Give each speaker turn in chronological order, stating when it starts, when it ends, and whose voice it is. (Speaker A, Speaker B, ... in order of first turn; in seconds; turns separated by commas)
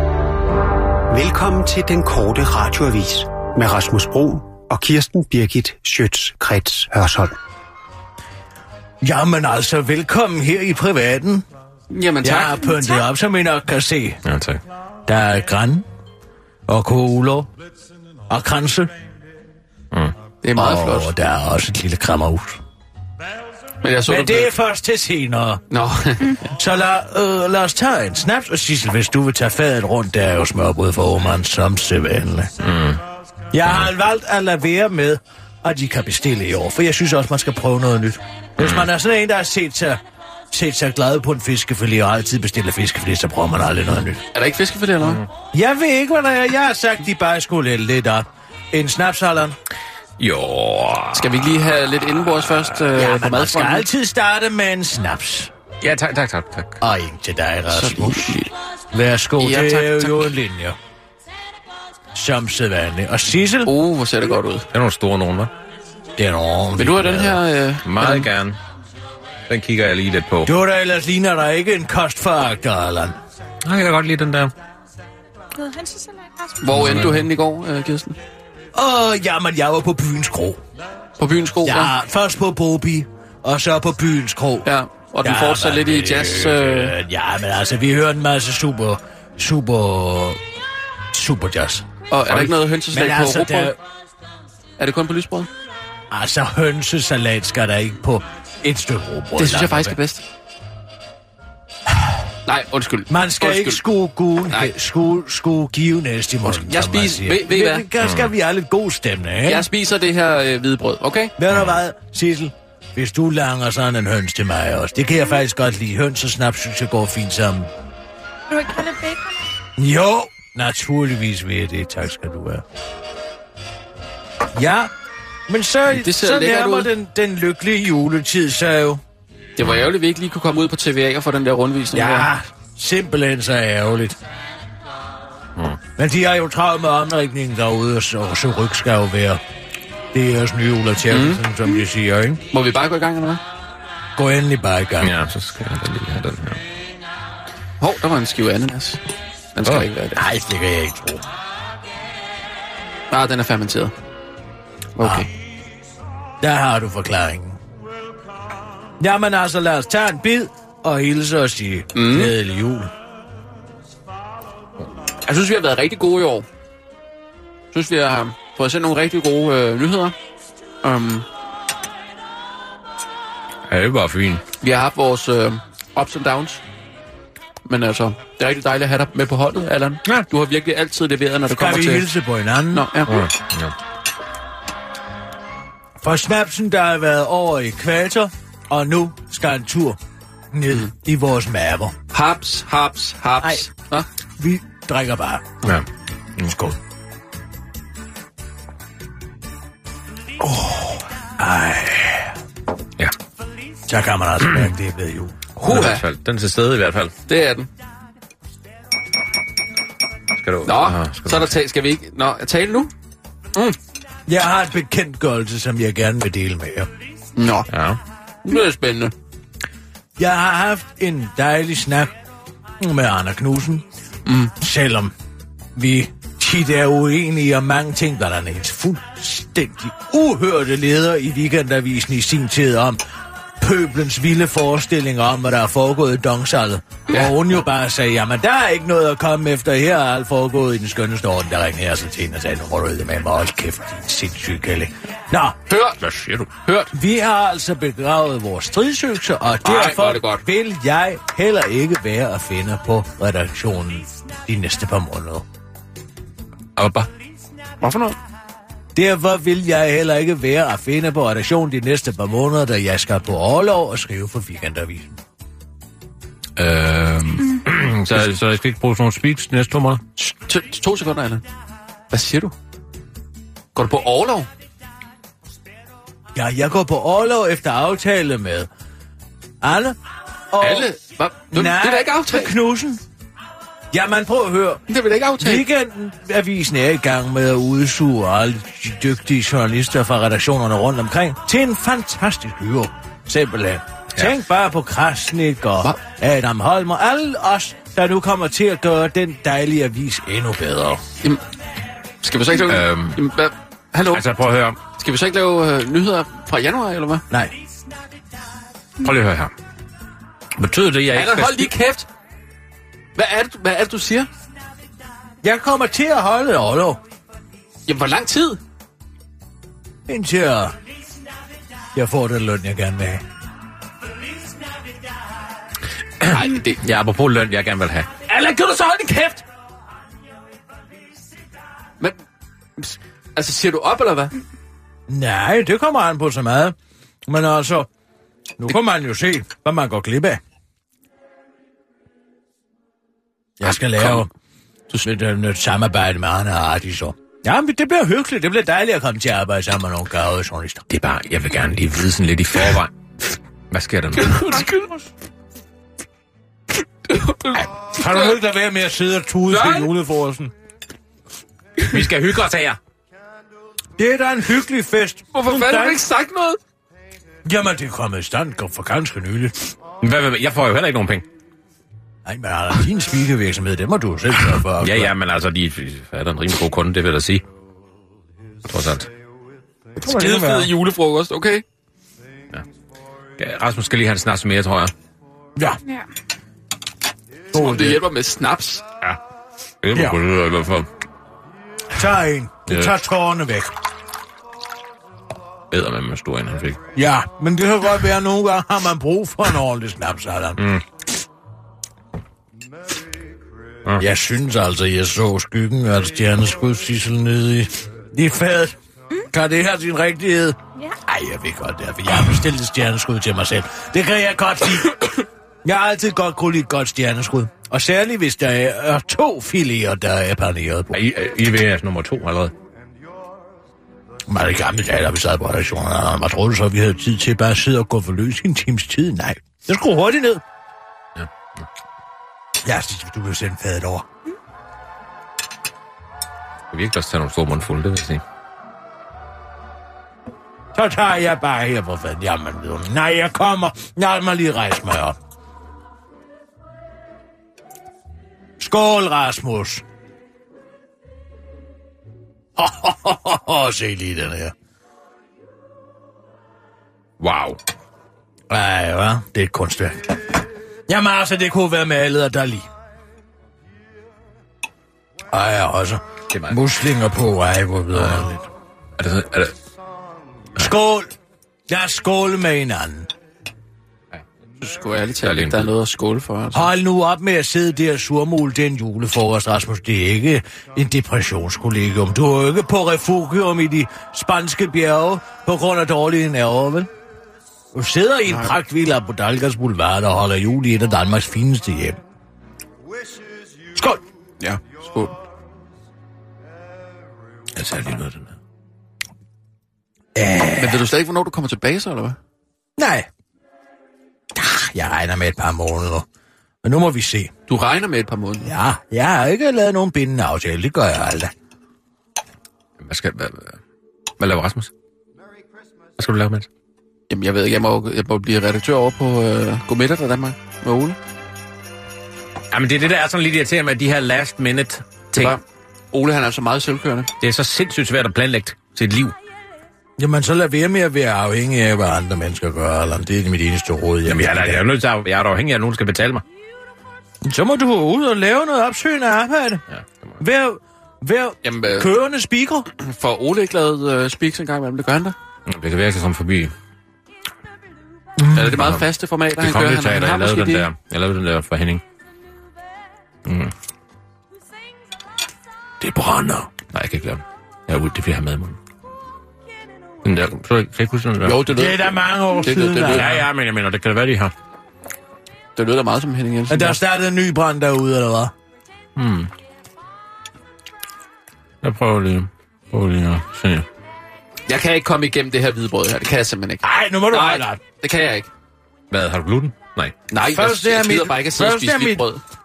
Speaker A: 1.1-7.3, Speaker B: 9.0-11.4, Speaker C: 11.9-12.7, Speaker B: 12.2-14.2, Speaker D: 14.2-14.6, Speaker B: 15.1-15.8, Speaker B: 16.7-17.5, Speaker B: 18.3-18.9, Speaker C: 20.4-21.1, Speaker B: 20.5-22.6, Speaker C: 23.8-24.5, Speaker B: 24.1-25.6, Speaker C: 25.7-26.5, Speaker B: 26.6-32.5, Speaker D: 32.6-33.0, Speaker B: 33.5-40.0, Speaker D: 38.6-38.9, Speaker B: 40.5-44.2, Speaker C: 44.3-45.2, Speaker D: 45.0-45.2, Speaker B: 45.5-49.6, Speaker D: 50.2-51.5, Speaker C: 51.1-53.9, Speaker B: 52.9-55.5, Speaker D: 55.8-56.8, Speaker B: 56.8-58.4, Speaker C: 57.7-58.5, Speaker B: 58.9-60.8, Speaker C: 59.4-60.3, Speaker B: 62.1-63.7, Speaker C: 63.6-64.7, Speaker D: 64.7-65.5, Speaker B: 66.2-67.4, Speaker C: 66.8-68.3, Speaker D: 67.8-68.6, Speaker D: 69.5-70.5, Speaker B: 70.4-73.2, Speaker D: 73.6-74.5, Speaker E: 75.5-76.8, Speaker C: 76.6-78.2, Speaker D: 76.7-77.3, Speaker B: 78.7-80.6, Speaker C: 81.2-81.9, Speaker B: 81.6-84.7, Speaker C: 84.6-87.0, Speaker B: 85.2-90.4, Speaker B: 91.1-93.8, Speaker C: 92.1-93.7, Speaker C: 94.8-95.5, Speaker B: 96.1-100.0, Speaker C: 99.4-100.2, Speaker C: 102.5-103.8, Speaker B: 103.1-109.7, Speaker C: 104.5-104.7, Speaker C: 106.4-107.9, Speaker D: 108.0-108.3, Speaker C: 109.4-111.3, Speaker B: 111.4-117.7, Speaker E: 118.5-119.4, Speaker B: 119.8-122.6, Speaker B: 124.5-124.9, Speaker B: 125.5-129.0, Speaker C: 125.9-126.9, Speaker C: 129.6-132.3, Speaker B: 131.9-134.2, Speaker B: 136.0-139.4, Speaker B: 140.1-142.4, Speaker C: 141.1-141.4, Speaker C: 142.5-143.4, Speaker B: 144.2-145.2, Speaker D: 145.0-146.6, Speaker C: 147.8-149.0, Speaker C: 149.5-150.2, Speaker B: 150.1-151.2, Speaker C: 153.1-153.9, Speaker C: 154.9-155.3, Speaker B: 155.0-155.3, Speaker B: 156.4-157.6, Speaker B: 159.0-162.9, Speaker C: 161.9-162.3, Speaker C: 165.2-166.5, Speaker C: 167.7-170.1, Speaker C: 170.8-171.2, Speaker D: 173.7-174.4, Speaker C: 174.6-176.6, Speaker C: 177.6-182.1, Speaker B: 181.5-182.9, Speaker C: 182.7-183.3, Speaker D: 183.1-183.7, Speaker B: 186.0-190.0, Speaker B: 190.5-191.9, Speaker C: 192.1-194.1, Speaker B: 194.4-195.6, Speaker B: 196.4-196.8, Speaker B: 201.4-202.3, Speaker B: 203.9-205.3, Speaker C: 205.6-206.0, Speaker D: 205.6-207.1, Speaker C: 207.3-207.7, Speaker D: 210.3-211.5, Speaker C: 210.6-212.9, Speaker B: 214.3-216.9, Speaker C: 217.4-217.7, Speaker D: 217.7-218.0, Speaker C: 218.4-219.1, Speaker B: 220.2-222.1, Speaker B: 222.8-223.8, Speaker C: 224.2-224.5, Speaker B: 224.6-225.1, Speaker B: 225.7-233.0, Speaker B: 233.6-245.6, Speaker C: 237.1-237.3, Speaker C: 245.7-246.0, Speaker D: 246.0-246.5, Speaker C: 246.6-246.9, Speaker B: 246.9-255.4, Speaker C: 249.6-250.4, Speaker D: 256.8-257.1, Speaker C: 257.8-258.1, Speaker B: 258.9-265.1, Speaker D: 266.6-270.0, Speaker C: 270.2-271.4, Speaker C: 272.1-272.5, Speaker C: 273.7-274.5, Speaker B: 276.3-278.7, Speaker B: 279.6-280.0, Speaker B: 280.5-280.9, Speaker C: 280.6-282.5, Speaker B: 281.5-283.0, Speaker B: 283.9-284.8, Speaker C: 284.9-285.7, Speaker B: 285.4-301.0, Speaker C: 302.2-304.2, Speaker D: 302.6-303.2, Speaker D: 304.1-304.8, Speaker C: 304.9-307.2, Speaker B: 307.3-307.5, Speaker D: 309.0-309.5, Speaker D: 310.6-311.7, Speaker C: 311.1-312.1, Speaker C: 313.1-314.3, Speaker B: 315.4-317.0, Speaker C: 317.9-318.6, Speaker B: 320.1-320.7, Speaker B: 321.9-323.2, Speaker D: 326.2-328.3, Speaker C: 326.2-326.8, Speaker C: 332.8-334.3, Speaker B: 335.1-336.7, Speaker B: 337.2-337.9, Speaker B: 338.6-340.4, Speaker B: 343.6-344.3, Speaker C: 343.7-344.3, Speaker B: 345.0-350.9, Speaker D: 350.9-352.9, Speaker D: 353.7-354.6, Speaker C: 354.2-355.1, Speaker C: 357.0-358.4, Speaker B: 357.9-360.5, Speaker C: 359.5-359.9, Speaker D: 361.8-362.8, Speaker B: 364.0-366.0, Speaker C: 365.3-366.6, Speaker B: 367.4-369.6, Speaker D: 370.0-371.2, Speaker B: 372.2-375.1, Speaker D: 374.8-377.4, Speaker D: 378.6-379.1, Speaker C: 380.0-381.6, Speaker B: 380.0-380.7, Speaker D: 383.4-384.9, Speaker C: 387.5-388.8, Speaker B: 387.5-388.0, Speaker D: 389.8-390.9, Speaker B: 391.9-393.7, Speaker D: 392.7-392.9, Speaker D: 395.7-396.8, Speaker B: 396.9-400.6, Speaker D: 400.6-400.8, Speaker B: 404.0-408.7, Speaker B: 409.3-421.0, Speaker D: 420.9-422.5, Speaker B: 424.3-430.4, Speaker B: 432.6-434.1, Speaker D: 436.7-438.2, Speaker B: 440.7-445.2, Speaker B: 448.6-449.8, Speaker B: 452.6-454.5, Speaker D: 457.2-457.6, Speaker B: 458.5-460.4, Speaker B: 460.9-462.7, Speaker B: 465.3-468.5, Speaker D: 466.3-466.6, Speaker D: 467.9-468.3, Speaker D: 469.0-469.5, Speaker B: 470.5-471.1, Speaker B: 471.7-473.1, Speaker C: 474.6-476.7, Speaker D: 475.2-475.7, Speaker B: 476.5-486.9, Speaker B: 487.7-492.0, Speaker C: 488.3-488.5, Speaker B: 493.7-494.0, Speaker C: 494.4-495.2, Speaker D: 497.6-498.3, Speaker B: 500.1-500.8, Speaker C: 500.6-502.2, Speaker B: 502.8-503.1, Speaker B: 504.3-506.1, Speaker B: 506.6-507.3, Speaker C: 507.5-508.5, Speaker B: 508.4-511.3, Speaker D: 512.8-513.6, Speaker D: 514.2-514.7, Speaker D: 516.0-516.5, Speaker C: 517.1-521.0, Speaker D: 522.5-525.4, Speaker C: 525.1-527.1, Speaker D: 527.2-529.1, Speaker B: 530.0-534.6, Speaker D: 534.0-536.2, Speaker B: 537.2-539.6, Speaker D: 539.7-540.2, Speaker B: 540.2-542.7, Speaker C: 541.4-541.9, Speaker C: 542.8-545.1, Speaker D: 545.5-546.5, Speaker B: 548.2-548.6, Speaker C: 548.3-550.7, Speaker D: 548.6-548.9, Speaker D: 549.4-551.8, Speaker D: 553.2-553.5, Speaker B: 555.8-556.5, Speaker D: 556.5-558.6, Speaker D: 560.0-561.5, Speaker C: 561.2-563.0, Speaker B: 561.5-563.3, Speaker D: 562.9-564.3, Speaker C: 565.5-566.8, Speaker B: 566.5-568.3, Speaker D: 569.0-569.3, Speaker D: 571.6-573.6, Speaker C: 574.5-578.3, Speaker B: 576.6-577.6, Speaker D: 578.9-579.9, Speaker C: 580.1-582.2, Speaker B: 580.2-582.0